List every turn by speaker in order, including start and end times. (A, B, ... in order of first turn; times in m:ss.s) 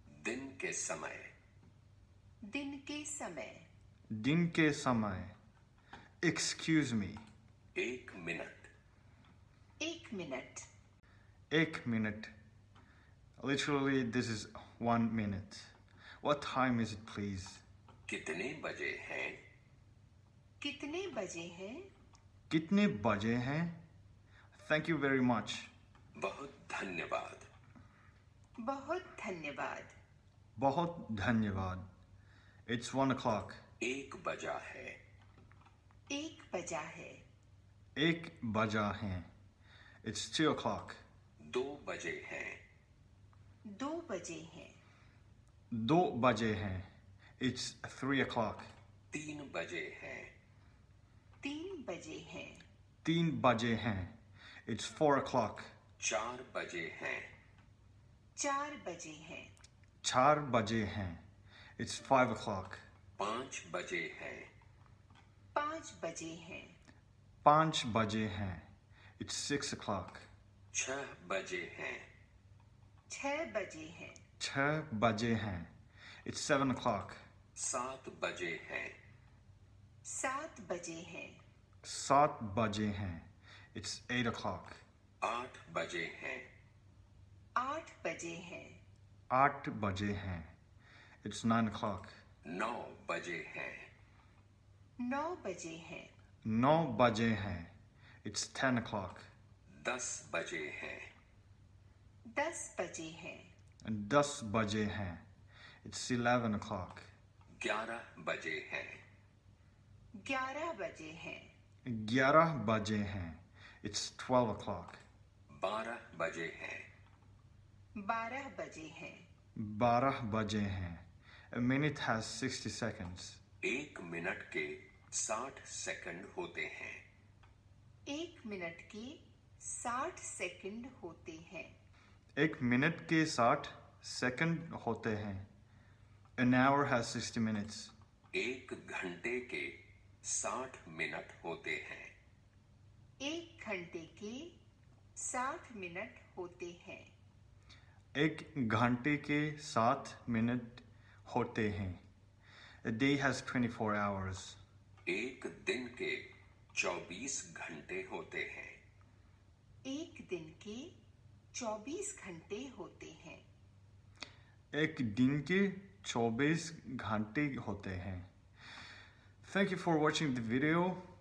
0:00.2-0:01.3 A
0:02.4-0:03.6 B
0:04.1-0:05.3 C
0:06.2-0:07.2 C
0:07.7-0:08.7 A
0:09.8-0:10.7 B
0:11.5-0:12.3 C
0:13.4-0:17.6 C
0:18.1-0:19.4 A
0:20.6-0:21.8 B
0:22.5-0:23.8 C
0:24.5-0:25.7 C
0:26.2-0:27.5 A
0:28.6-0:29.9 B
0:30.6-0:31.8 C
0:32.7-0:33.6 C
0:33.8-0:35.0 A
0:36.1-0:37.2 B
0:38.0-0:39.3 C
0:40.0-0:41.0 C
0:41.4-0:42.6 A
0:43.8-0:44.8 B
0:45.7-0:46.8 C
0:47.4-0:48.7 C
0:49.1-0:50.3 A
0:51.4-0:52.6 B
0:53.0-0:54.1 C
0:54.6-0:55.7 C
0:56.0-0:57.3 A
0:58.4-0:59.5 B
1:00.0-1:01.2 C
1:01.8-1:02.8 C
1:03.2-1:04.5 A
1:05.5-1:06.7 B
1:07.4-1:08.7 C
1:09.2-1:10.3 C
1:10.7-1:12.1 A
1:13.1-1:14.2 B
1:14.4-1:15.7 C
1:16.2-1:17.2 C
1:17.6-1:18.9 A
1:20.0-1:21.4 B
1:21.8-1:24.8 C
1:25.2-1:26.5 A
1:27.6-1:28.8 B
1:29.3-1:30.5 C
1:31.2-1:32.2 C
1:32.5-1:33.9 A
1:35.0-1:36.1 B
1:36.4-1:37.7 C
1:38.2-1:39.3 C
1:39.7-1:41.1 A
1:42.3-1:43.5 B
1:43.8-1:45.2 C
1:45.8-1:47.1 C
1:47.6-1:49.0 A
1:50.2-1:51.5 B
1:51.8-1:55.0 C
1:55.5-1:56.9 A
1:58.0-1:59.3 B
1:59.6-2:03.4 C
2:03.6-2:07.0 A
2:08.1-2:11.7 B
2:12.4-2:15.4 C
2:16.4-2:17.9 C
2:18.3-2:22.1 A
2:23.2-2:24.4 B
2:25.2-2:27.1 B
2:28.1-2:32.0 C
2:32.8-2:34.6 C
2:35.1-2:38.8 A
2:39.8-2:40.9 B
2:41.5-2:43.4 B
2:44.7-2:48.3 C
2:49.4-2:51.0 C